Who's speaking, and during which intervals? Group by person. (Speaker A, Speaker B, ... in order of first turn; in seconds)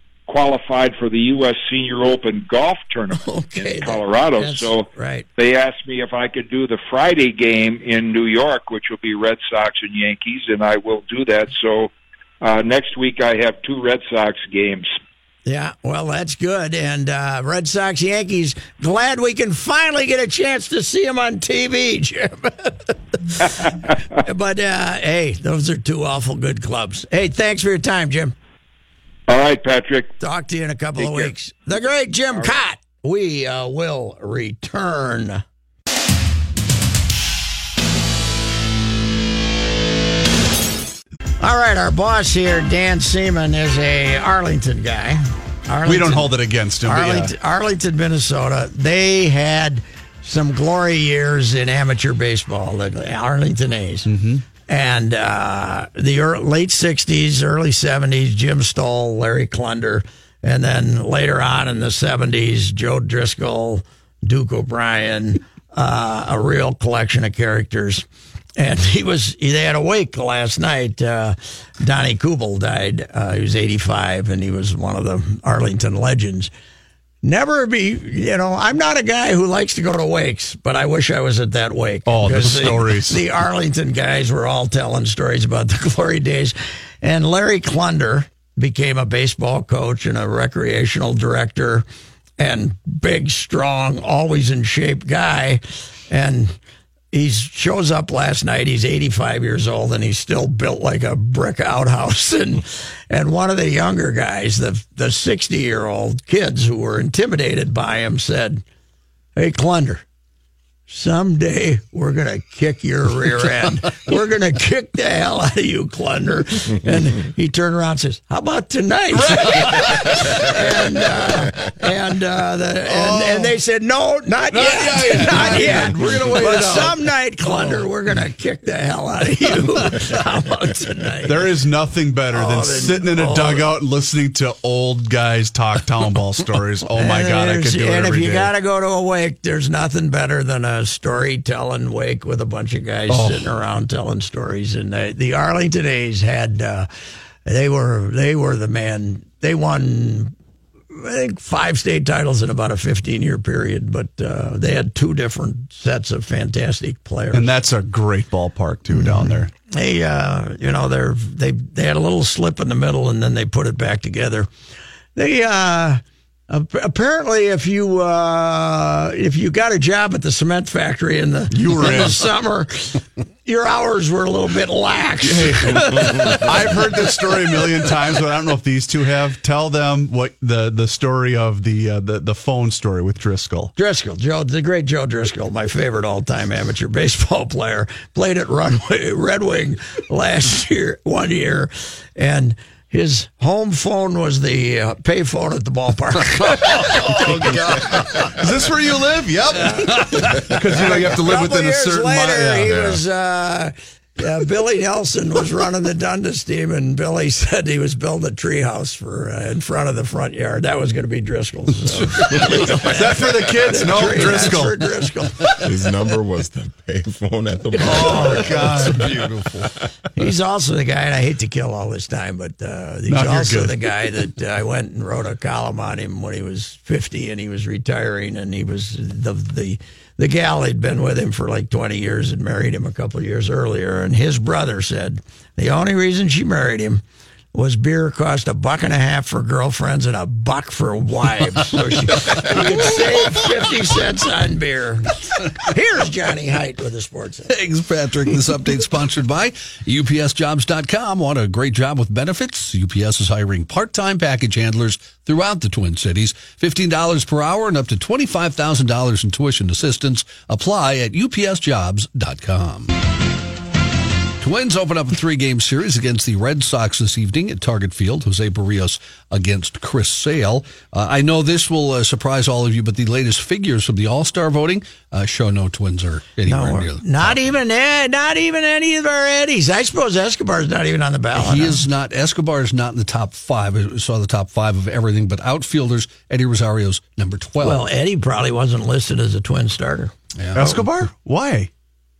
Speaker A: 0.3-4.9, 5.4-14.9, 29.3-30.1, 31.0-31.3
Speaker B: 3.1-5.3, 15.4-28.4, 30.2-35.4, 41.4-46.3, 46.8-54.1, 54.7-68.1, 68.6-76.5, 77.2-91.9, 92.4-96.6, 97.1-108.6, 109.4-110.0, 110.9-131.5, 132.3-133.7, 136.9-146.9, 147.4-150.3, 150.9-157.5, 158.9-164.5, 165.2-176.4, 183.8-197.7, 200.2-215.6, 217.9-218.7, 220.2-237.0, 237.5-247.5, 276.5-281.8, 287.6-290.1
Speaker C: 45.9-47.3, 54.1-54.4, 82.1-83.2, 119.2-119.9, 122.9-123.5, 124.5-127.8, 131.3-138.5, 143.1-143.4, 157.3-159.5, 171.5-172.2, 175.2-183.7, 198.4-202.7, 212.8-214.9, 217.9-219.3, 223.1-223.7, 290.6-291.7
Speaker D: 197.2-198.3, 202.7-203.0, 212.3-213.6, 215.6-219.3
Speaker E: 218.9-219.6, 247.5-262.9, 264.4-277.6, 281.3-287.8, 290.4-290.9